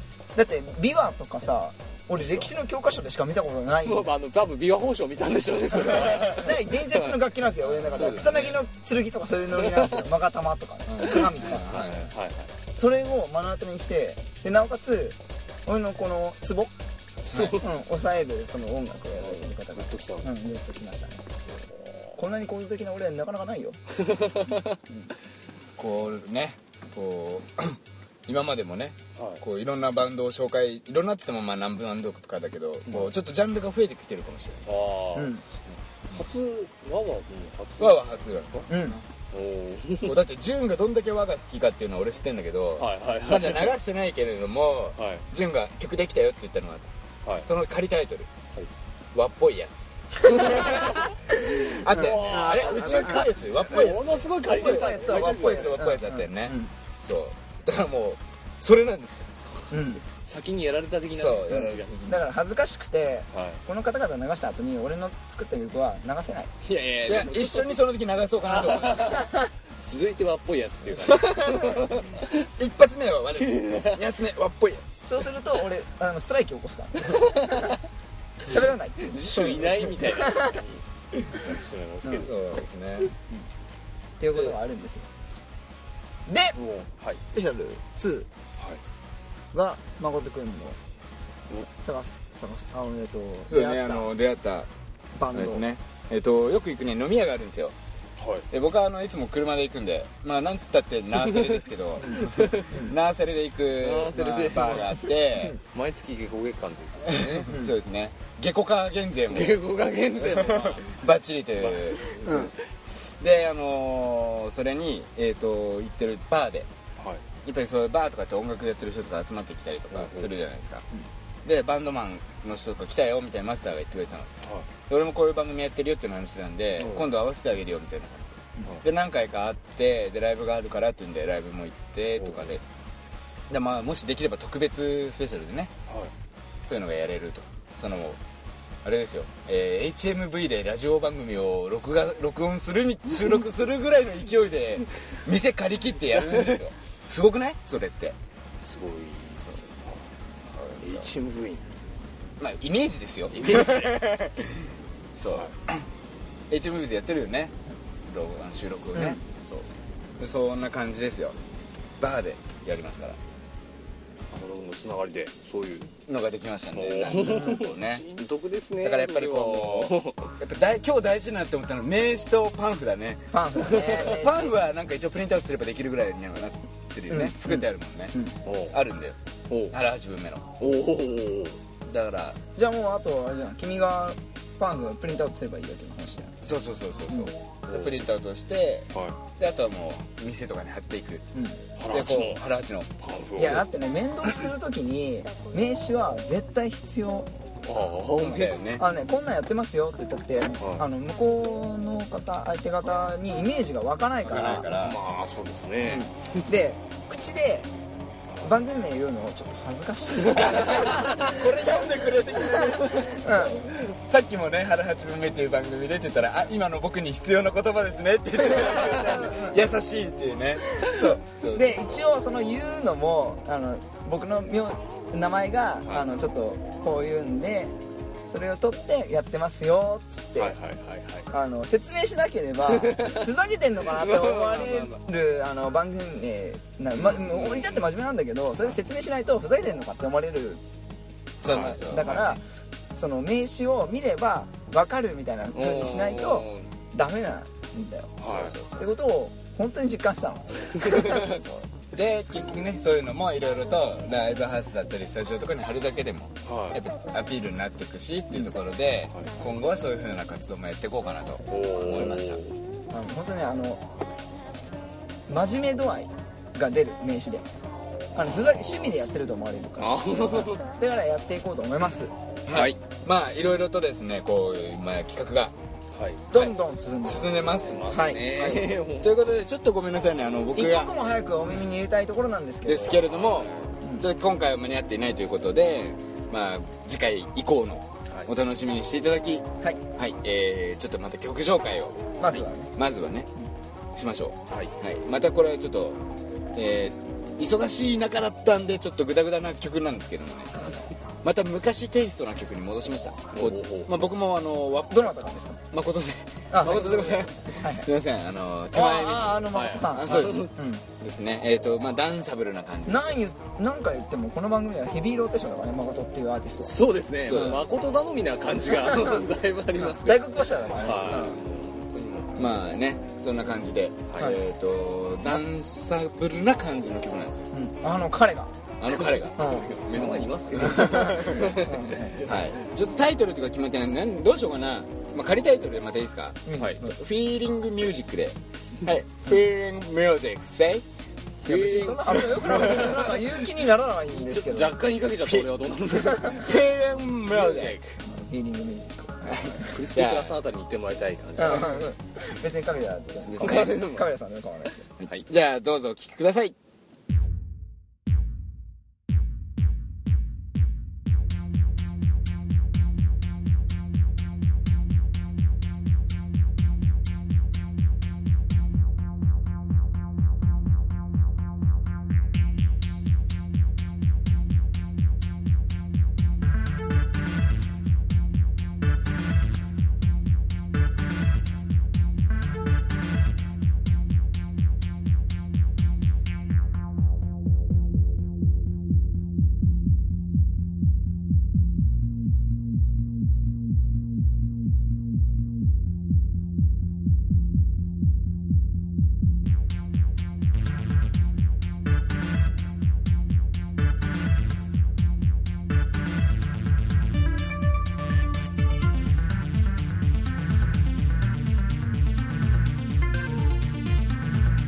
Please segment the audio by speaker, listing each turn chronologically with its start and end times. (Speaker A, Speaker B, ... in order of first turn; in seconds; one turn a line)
Speaker A: 0.3-4.1
Speaker B: 3.8-7.2
Speaker A: 5.8-11.8
Speaker B: 7.8-8.6
Speaker B: 9.6-10.0
Speaker C: 10.9-12.1
Speaker B: 11.1-12.5
Speaker A: 12.7-16.7
Speaker C: 17.2-17.6
Speaker B: 17.3-17.6
Speaker A: 17.5-21.3
Speaker B: 19.1-20.3
Speaker A: 22.1-23.8
Speaker B: 24.0-24.8
Speaker C: 25.8-34.7
Speaker B: 29.1-29.4
Speaker B: 34.6-35.3
Speaker A: 35.1-35.4
Speaker B: 36.1-38.7
Speaker C: 37.8-39.0
Speaker A: 38.7-39.0
Speaker B: 39.3-40.2
Speaker C: 40.0-46.9
Speaker B: 42.8-43.7
Speaker B: 45.0-45.2
Speaker C: 47.4-48.3
Speaker C: 49.1-59.3
Speaker B: 50.3-51.1
Speaker A: 51.3-53.2
Speaker B: 51.7-55.8
Speaker A: 54.5-56.7
Speaker A: 59.7-60.0
Speaker B: 60.1-62.2
Speaker C: 61.0-62.0
Speaker A: 62.1-66.5
Speaker B: 63.3-63.6
Speaker B: 66.6-67.8
Speaker C: 67.0-69.2
Speaker B: 68.5-69.3
Speaker B: 69.8-72.5
Speaker C: 71.0-71.9
Speaker C: 72.6-75.0
Speaker B: 73.4-74.0
Speaker A: 75.0-77.7
Speaker A: 78.4-80.6
Speaker B: 79.1-82.4
Speaker C: 82.2-83.1
Speaker A: 84.2-85.1
Speaker A: 86.3-86.6
Speaker B: 86.6-87.2
Speaker A: 87.3-88.3
Speaker A: 89.5-90.8
Speaker A: 91.5-94.1
Speaker C: 93.5-94.7
Speaker A: 95.2-95.6
Speaker C: 95.3-97.8
Speaker B: 98.2-98.5
Speaker C: 98.5-105.6
Speaker B: 102.1-102.8
Speaker B: 103.8-107.5
Speaker C: 107.0-109.6
Speaker B: 109.3-110.9
Speaker C: 110.2-116.7
Speaker B: 111.6-112.5
Speaker A: 112.2-112.5
Speaker B: 117.0-117.2
Speaker C: 117.4-120.8
Speaker B: 119.9-120.3
Speaker C: 121.4-124.3
Speaker B: 124.4-124.7
Speaker C: 124.9-132.6
Speaker B: 126.8-127.1
Speaker B: 132.2-132.5
Speaker C: 133.5-135.7
Speaker B: 135.9-136.1
Speaker C: 136.6-138.2
Speaker C: 138.8-148.2
Speaker B: 148.6-150.1
Speaker C: 150.4-151.1
Speaker B: 150.8-151.7
Speaker C: 152.4-155.9
Speaker B: 153.3-154.0
Speaker C: 156.5-159.7
Speaker A: 158.9-159.2
Speaker C: 160.2-161.4
Speaker C: 162.0-163.2
Speaker B: 164.3-165.9
Speaker C: 166.1-168.1
Speaker B: 166.7-170.3
Speaker C: 168.8-178.1
Speaker A: 173.3-174.5
Speaker A: 177.1-177.6
Speaker B: 178.4-178.8
Speaker C: 178.7-179.2
Speaker B: 179.5-179.8
Speaker C: 179.7-180.5
Speaker B: 180.6-181.6
Speaker C: 181.8-182.4
Speaker A: 182.6-186.4
Speaker C: 186.4-191.2
Speaker A: 187.1-187.3
Speaker B: 187.7-188.0
Speaker A: 191.3-191.6
Speaker B: 191.8-192.4
Speaker C: 191.9-193.0
Speaker B: 193.0-193.7
Speaker A: 193.3-197.3
Speaker B: 197.6-198.6
Speaker C: 198.2-198.8
Speaker A: 198.8-204.7
Speaker B: 200.6-200.8
Speaker C: 204.3-205.0
Speaker B: 204.4-206.1
Speaker A: 205.8-207.7
Speaker B: 208.3-208.5
Speaker A: 208.4-211.4
Speaker B: 210.4-211.0
Speaker C: 210.6-222.1
Speaker A: 212.8-213.6
Speaker A: 218.6-219.6
Speaker A: 220.7-227.7
Speaker A: 228.3-230.6
Speaker B: 230.4-231.3
Speaker A: 231.3-240.6
Speaker B: 232.7-233.2
Speaker B: 233.9-234.9
Speaker B: 237.0-237.9
Speaker C: 241.4-242.4
Speaker B: 241.4-241.7
Speaker A: 241.4-242.4
Speaker A: 242.9-251.7
Speaker B: 245.5-246.7
Speaker B: 248.2-248.6
Speaker C: 248.3-248.8
Speaker C: 250.9-262.4
Speaker B: 256.4-256.8
Speaker B: 261.5-262.6
Speaker A: 262.9-263.8
Speaker A: 265.3-267.4
Speaker A: 268.1-272.1
Speaker B: 269.8-270.6
Speaker C: 272.4-275.5
Speaker B: 272.5-272.8
Speaker B: 275.9-276.3
Speaker C: 276.3-280.9
Speaker A: 276.3-277.3
Speaker B: 277.2-279.2
Speaker A: 277.9-278.5
Speaker A: 280.6-283.0
Speaker C: 282.6-293.3
Speaker B: 282.9-283.7
Speaker A: 283.8-284.1
Speaker A: 292.2-292.7
Speaker C: 293.9-296.0
Speaker C: 296.5-305.1
Speaker B: 303.3-303.9
Speaker A: 304.9-305.6
Speaker C: 305.7-313.2
Speaker A: 306.5-307.9
Speaker B: 306.6-307.3
Speaker A: 308.7-310.8
Speaker B: 309.4-310.5
Speaker A: 312.9-316.8
Speaker B: 316.6-320.2
Speaker C: 317.2-317.6
Speaker A: 318.8-319.1
Speaker A: 319.8-321.4
Speaker B: 320.8-322.4
Speaker C: 321.0-321.4
Speaker C: 321.9-327.5
Speaker B: 324.1-324.4
Speaker A: 327.5-328.5
Speaker C: 328.8-331.6
Speaker B: 328.9-332.3
Speaker A: 329.4-329.7
Speaker A: 330.6-332.2
Speaker C: 332.2-340.9
Speaker A: 336.4-336.9
Speaker B: 341.4-343.2
Speaker C: 341.4-343.1
Speaker A: 341.4-344.8
Speaker B: 344.1-346.6
Speaker C: 346.3-347.8
Speaker B: 347.3-348.0
Speaker A: 348.0-349.8
Speaker C: 349.3-350.4
Speaker B: 349.6-351.9
Speaker A: 351.4-354.9
Speaker C: 353.4-353.8
Speaker B: 353.4-354.1
Speaker C: 355.0-356.5